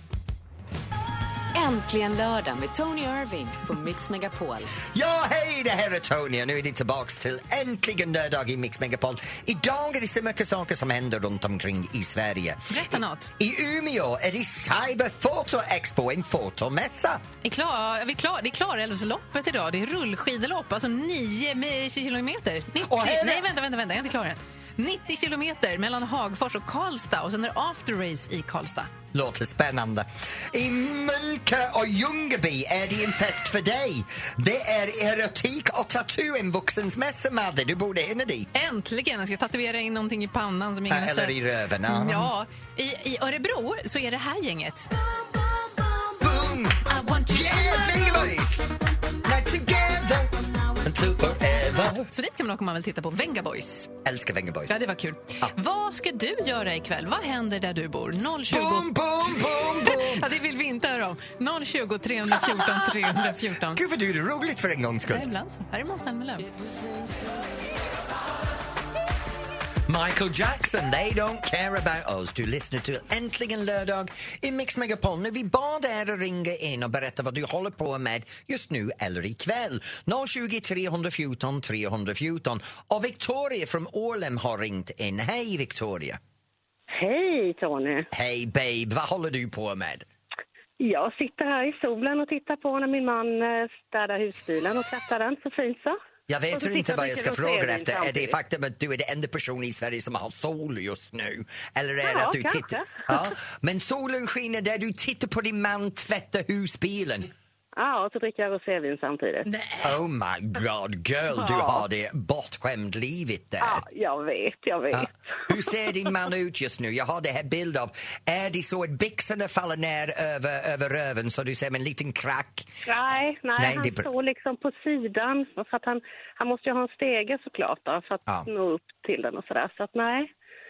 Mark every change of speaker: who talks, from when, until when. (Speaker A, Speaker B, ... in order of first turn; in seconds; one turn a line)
Speaker A: 1.5-4.7
Speaker B: 4.9-17.2
Speaker C: 12.7-13.3
Speaker C: 17.4-28.9
Speaker B: 22.8-23.5
Speaker B: 29.1-38.5
Speaker C: 38.5-44.9
Speaker B: 40.9-42.3
Speaker B: 46.2-48.6
Speaker C: 46.9-48.3
Speaker B: 49.2-52.1
Speaker C: 52.1-53.9
Speaker B: 54.0-54.8
Speaker C: 54.7-63.8
Speaker B: 58.5-60.3
Speaker B: 62.3-65.3
Speaker C: 65.1-66.5
Speaker B: 69.9-86.2
Speaker D: 86.9-88.1
Speaker B: 88.1-90.1
Speaker D: 90.8-96.0
Speaker B: 96.3-107.3
Speaker D: 96.5-98.4
Speaker D: 102.0-103.3
Speaker D: 107.8-109.5
Speaker C: 109.5-109.9
Speaker B: 109.8-113.8
Speaker D: 111.3-111.8
Speaker D: 113.6-115.1
Speaker B: 114.9-122.8
Speaker D: 122.8-130.3
Speaker B: 123.6-124.1